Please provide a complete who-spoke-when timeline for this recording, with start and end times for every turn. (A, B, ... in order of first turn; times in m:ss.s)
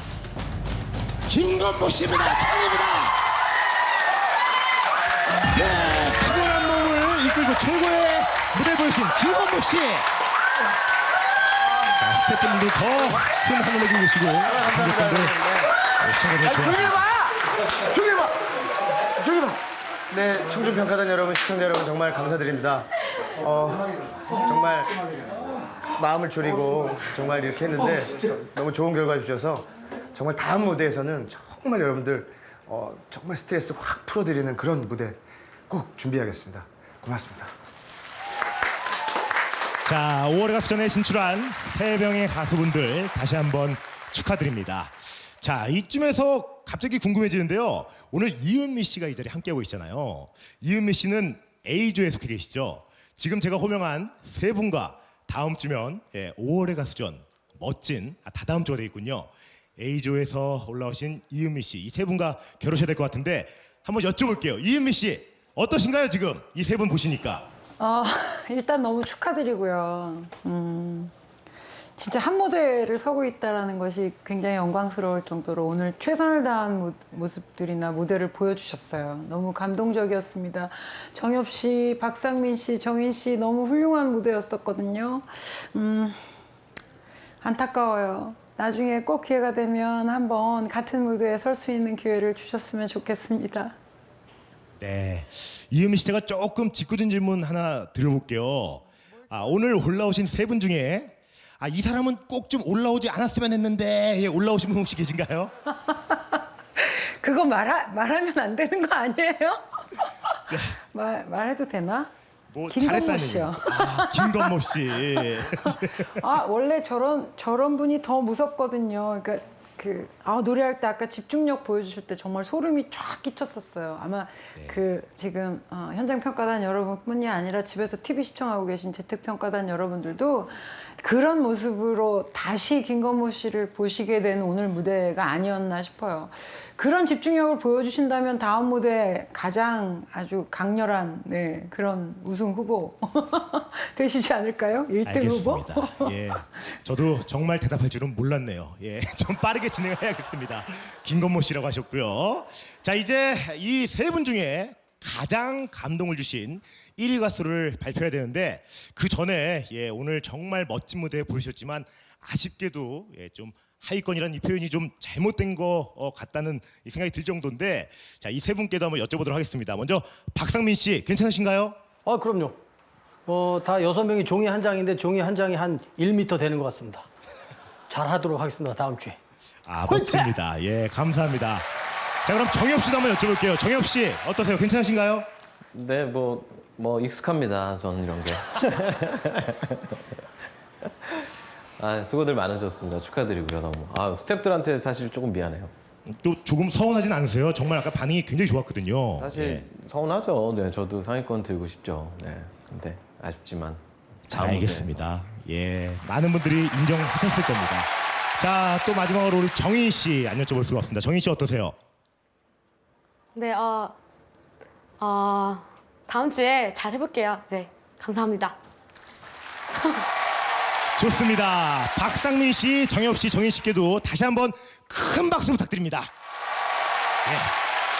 0:01.3-0:03.2 A
0:05.5-0:10.0 A
0:12.0-0:15.4 A
0:14.6-0:15.6 B
0:16.0-0:17.1 A
0:16.5-0:17.2 B
0:17.8-0:18.4 B
0:19.2-0:37.5 B
0:39.8-1:07.5 A
1:07.8-1:11.1 C
1:12.0-1:26.2 C
1:27.4-1:33.8 C
1:34.8-1:45.5 A
1:46.1-1:52.1 C
1:50.4-1:50.8 A
1:52.5-1:56.2 A
1:52.7-1:54.5 C
1:55.2-2:26.2 C
2:04.5-2:04.8 A
2:25.0-2:51.8 A
2:52.0-2:52.6 D
2:53.3-2:57.0 D
2:57.9-2:59.2 D
2:59.7-3:01.7 A
2:59.9-3:00.2 D
3:02.2-3:05.3 A
3:05.7-3:10.0 E
3:11.8-3:15.7 E
3:16.1-3:19.7 A
3:19.2-3:25.0 E
3:24.3-3:31.7 A
3:33.3-3:34.0 F
3:35.0-3:38.6 F
3:41.0-3:46.1 A
3:47.2-3:47.5 A